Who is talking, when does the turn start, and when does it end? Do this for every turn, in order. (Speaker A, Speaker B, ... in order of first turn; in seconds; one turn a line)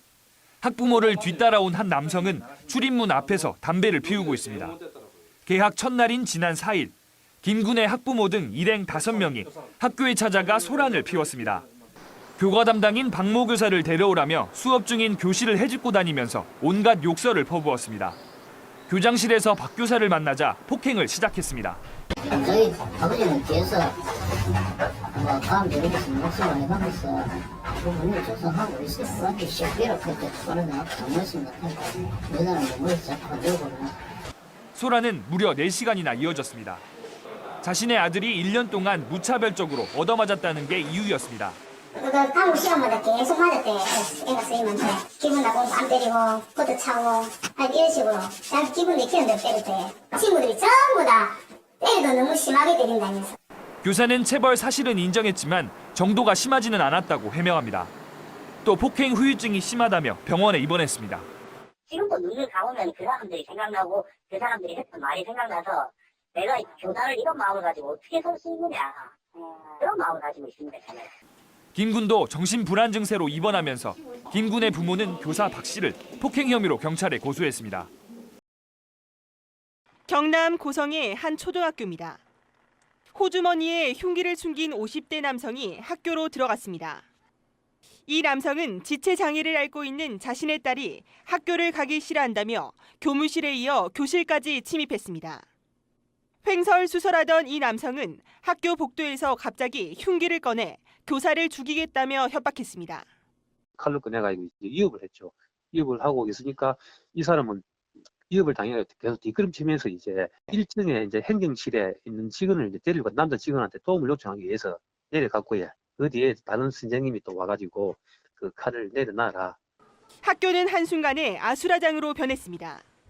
Speaker A: 0.6-4.8
Speaker A: 5.5-11.6
Speaker A: 12.4-18.2
Speaker A: 18.9-21.8
Speaker B: 22.3-23.9
Speaker B: 25.1-27.2
Speaker B: 27.8-33.9
Speaker A: 34.7-36.8
Speaker A: 37.6-41.6
Speaker C: 42.0-53.3
Speaker A: 53.8-57.9
Speaker A: 58.6-61.2
Speaker D: 61.9-69.1
Speaker D: 69.8-71.1
Speaker A: 71.7-77.9
Speaker E: 80.1-82.2
Speaker E: 83.1-87.0
Speaker E: 88.1-95.4
Speaker E: 96.4-103.0
Speaker F: 103.8-107.6
Speaker F: 108.3-119.6
Speaker E: 120.2-122.8